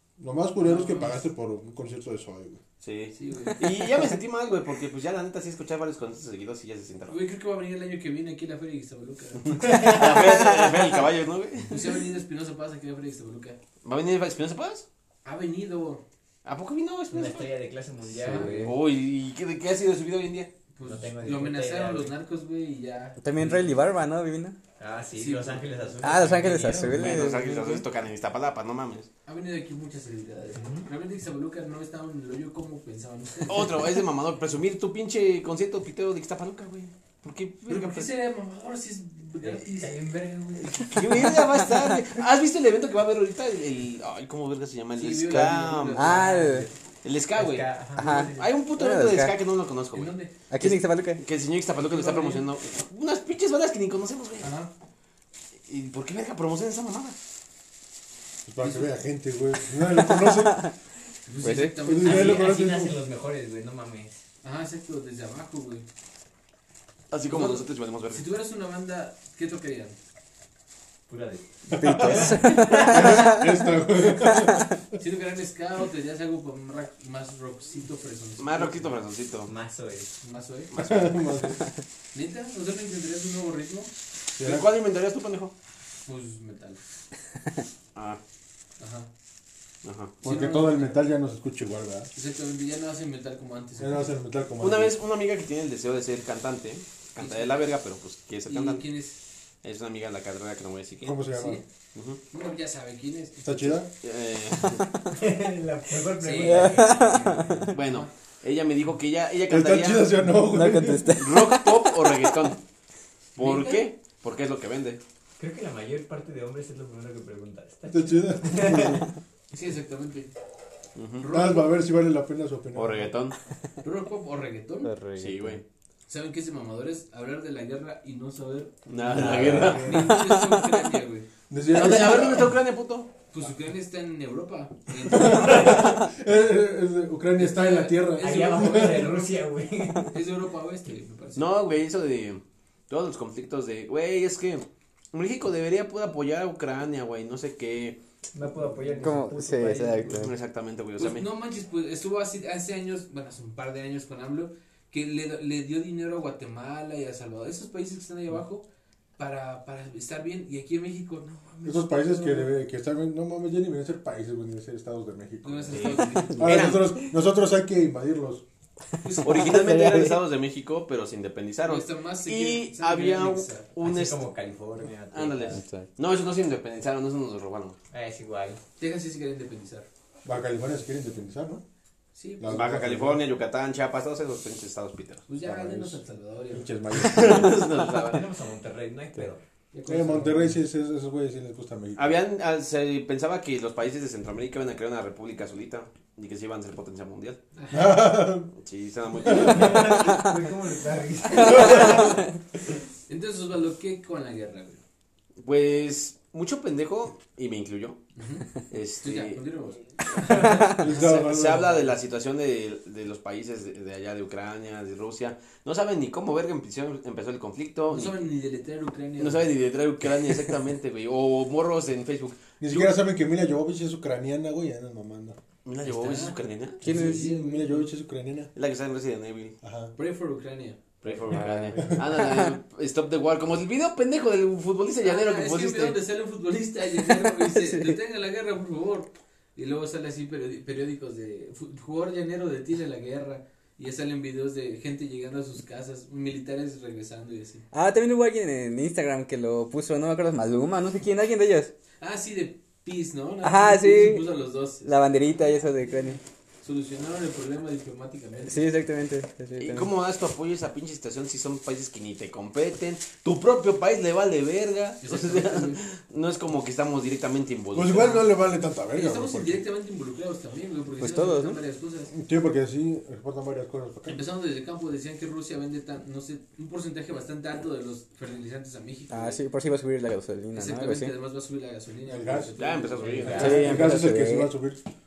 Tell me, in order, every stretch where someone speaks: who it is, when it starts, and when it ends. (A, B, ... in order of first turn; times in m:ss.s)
0:00.2-0:02.6 A
0:00.6-0:01.2 B
0:02.8-0:07.2 C
0:03.2-0:03.6 B
0:07.1-0:09.9 B
0:09.4-0:11.9 C
0:09.7-0:10.8 D
0:11.7-0:13.6 B
0:13.8-0:14.9 C
0:15.2-0:16.0 B
0:16.4-0:17.5 C
0:17.1-0:18.7 E
0:18.2-0:18.6 B
0:18.3-0:18.7 D
0:18.4-0:20.5 C
0:20.8-0:23.5 B
0:20.8-0:22.2 E
0:23.2-0:24.6 D
0:24.8-0:27.3 E
0:25.1-0:27.2 B
0:26.0-0:27.8 D
0:26.8-0:29.1 C
0:29.3-0:33.9 B
0:30.5-0:30.9 E
0:33.5-0:38.1 C
0:37.7-0:40.0 B
0:39.4-0:40.9 E
0:40.6-0:46.1 C
0:41.2-0:41.7 D
0:45.0-0:46.4 B
0:46.0-0:46.7 D
0:46.0-0:46.7 E
0:47.0-0:47.8 C
0:47.3-0:48.5 E
0:48.0-0:49.3 D
0:48.3-0:54.5 C
0:49.9-0:50.3 B
0:50.5-0:51.2 D
0:51.8-0:52.4 B
0:54.4-0:54.7 B
0:55.7-0:57.2 C
0:58.5-1:00.7 A
0:58.6-0:58.9 B
1:00.1-1:00.7 D
1:01.3-1:02.5 B
1:01.4-1:01.8 D
1:01.8-1:03.0 A
1:02.0-1:04.2 E
1:04.4-1:05.8 B
1:07.1-1:08.2 C
1:07.3-1:10.0 B
1:11.1-1:13.2 E
1:11.7-1:14.8 A
1:11.7-1:13.6 D
1:14.3-1:14.6 D
1:15.0-1:19.1 B
1:18.4-1:19.5 C
1:19.5-1:20.1 E
1:20.2-1:20.7 B
1:20.7-1:21.2 C
1:20.8-1:21.6 A
1:22.1-1:23.9 B
1:24.4-1:24.7 A
1:24.4-1:25.5 C
1:26.1-1:26.8 B
1:28.0-1:28.2 C
1:28.8-1:29.1 B
1:29.8-1:30.2 C
1:30.2-1:32.1 A
1:30.2-1:31.0 B
1:32.1-1:34.2 B
1:33.8-1:35.0 A
1:34.6-1:38.9 C
1:37.2-1:37.6 B
1:38.5-1:39.2 B
1:39.6-1:41.2 C
1:41.0-1:41.6 A
1:41.3-1:41.6 B
1:42.0-1:42.2 C
1:42.3-1:43.8 B
1:43.4-1:43.9 A
1:44.0-1:44.9 C
1:45.1-1:47.7 E
1:46.2-1:48.1 B
1:46.4-1:47.7 D
1:47.7-1:50.2 C
1:49.5-1:51.2 A
1:50.4-1:52.3 D
1:51.2-1:52.6 C
1:53.4-1:55.0 C
1:53.4-1:53.8 B
1:55.4-1:59.1 E
1:57.9-1:59.1 A
1:59.5-2:00.3 B
2:01.0-2:01.3 C
2:01.2-2:01.7 B
2:01.3-2:03.1 A
2:02.7-2:03.4 C
2:03.8-2:04.9 B
2:04.8-2:05.6 D
2:05.2-2:05.6 C
2:06.1-2:11.3 B
2:08.9-2:10.1 C
2:09.1-2:10.2 A
2:09.2-2:09.8 E
2:10.0-2:10.8 D
2:11.5-2:12.6 A
2:11.7-2:13.1 C
2:13.3-2:16.0 B
2:15.1-2:19.2 A
2:17.4-2:19.4 B
2:18.2-2:20.1 E
2:20.1-2:21.5 B
2:21.4-2:28.0 C
2:28.3-2:30.3 E
2:29.0-2:30.3 D
2:30.1-2:31.3 C
2:31.0-2:38.6 B
2:39.2-2:42.5 B
2:41.6-2:48.4 A
2:45.4-2:46.7 B
2:45.7-2:46.9 C
2:46.2-2:46.7 D
2:49.0-2:49.6 B
2:49.2-2:54.3 C
2:49.2-2:50.2 D
2:51.6-2:53.7 B
2:53.8-2:55.6 E
2:55.1-2:57.8 C
2:55.5-2:55.9 D
2:57.9-2:58.6 E
2:58.8-2:59.9 B
3:00.2-3:01.6 A
3:02.1-3:02.6 B
3:02.4-3:03.2 A
3:02.5-3:05.2 C
3:05.3-3:07.2 B
3:05.4-3:06.0 A
3:06.5-3:07.6 A
3:06.9-3:08.3 C
3:07.9-3:09.4 E
3:09.7-3:10.6 B
3:09.9-3:12.2 A
3:12.0-3:17.4 C
3:17.6-3:18.1 B
3:17.7-3:18.5 A
3:18.6-3:20.0 C
3:19.2-3:22.2 E
3:19.3-3:19.6 A
3:21.5-3:22.0 A
3:21.5-3:22.0 B
3:21.6-3:22.1 D
3:21.6-3:21.9 C
3:23.1-3:24.8 B
3:25.4-3:28.0 C
3:28.2-3:28.5 B
3:28.7-3:29.7 C
3:29.0-3:31.2 B
3:30.3-3:38.2 C
3:30.3-3:30.8 D
3:30.4-3:32.0 A
3:37.9-3:39.5 B
3:39.2-3:42.9 C
3:42.6-3:45.4 A
3:45.6-3:46.8 C
3:45.8-3:47.9 B
3:46.8-3:48.5 A
3:46.8-3:47.3 D
3:48.5-3:49.6 C
3:49.6-3:49.9 A
3:50.0-3:50.9 B
3:51.0-3:56.0 C
3:51.3-3:52.5 D
3:55.0-4:07.7 B
3:57.1-3:58.0 D
4:07.7-4:11.7 D
4:12.0-4:14.9 B
4:13.4-4:14.3 D
4:14.8-4:16.2 D
4:16.6-4:18.7 B
4:18.5-4:19.9 D
4:19.6-4:28.2 C
4:25.0-4:25.8 B
4:27.7-4:29.6 A
4:27.9-4:28.3 B
4:28.9-4:32.1 B
4:31.0-4:31.6 D
4:32.1-4:34.2 A
4:34.1-4:39.4 B
4:39.1-4:41.1 D
4:40.5-4:43.7 B
4:42.1-4:42.5 A
4:42.6-4:43.8 C
4:43.2-4:44.0 E
4:43.2-4:44.8 A
4:43.3-4:44.5 D